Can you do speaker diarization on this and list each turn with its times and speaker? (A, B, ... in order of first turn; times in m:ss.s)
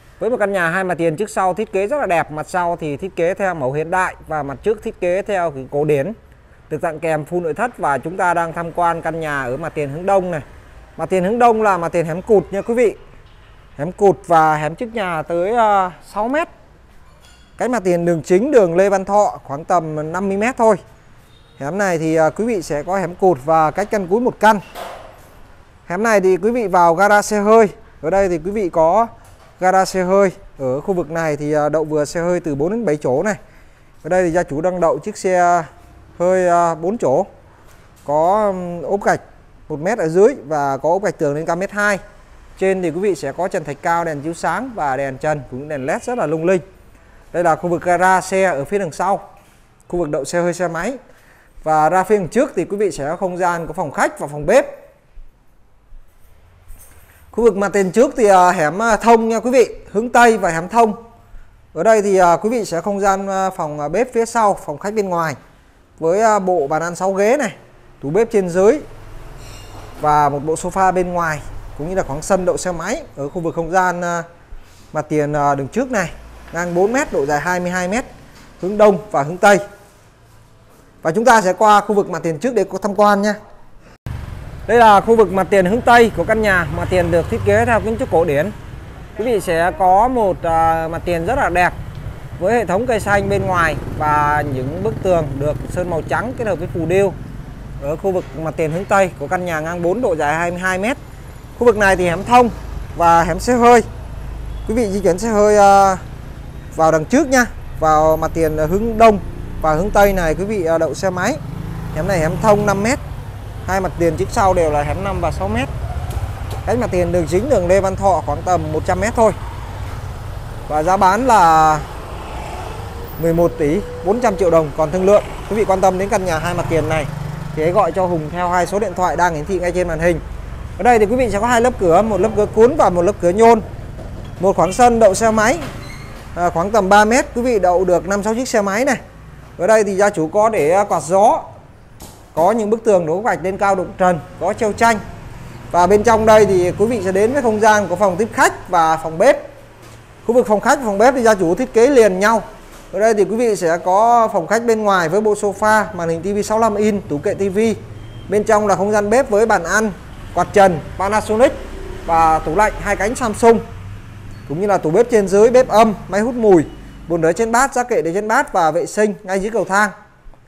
0:00.2-0:06.1 A
0:06.7-0:10.4 A
0:11.0-0:13.0 A
0:13.8-0:16.5 A
0:17.6-0:20.8 A
0:21.6-0:24.6 A
0:25.8-0:33.4 A
0:34.0-0:37.3 A
0:38.0-0:42.0 A
0:42.6-0:46.6 A
0:47.3-0:49.2 A
0:49.9-0:51.0 A
0:51.6-0:54.7 A
0:57.3-1:01.0 A
1:01.7-1:05.4 A
1:06.0-1:08.8 A
1:10.0-1:14.2 A
1:14.9-1:18.0 A
1:18.6-1:19.6 A
1:21.0-1:23.4 A
1:24.7-1:28.5 A
1:29.2-1:31.7 A
1:32.4-1:37.2 A
1:37.8-1:41.0 A
1:41.6-1:43.8 A
1:44.6-1:46.0 A
1:46.7-1:51.4 A
1:51.9-1:53.0 A
1:53.6-1:55.7 A
1:56.6-1:59.4 A
2:00.7-2:01.9 A
2:03.2-2:10.2 A
2:10.8-2:13.6 A
2:14.4-2:15.6 A
2:16.3-2:19.0 A
2:19.6-2:21.4 A
2:22.3-2:25.0 A
2:25.7-2:29.4 A
2:30.2-2:41.5 A
2:42.0-2:43.6 A
2:44.5-2:49.9 A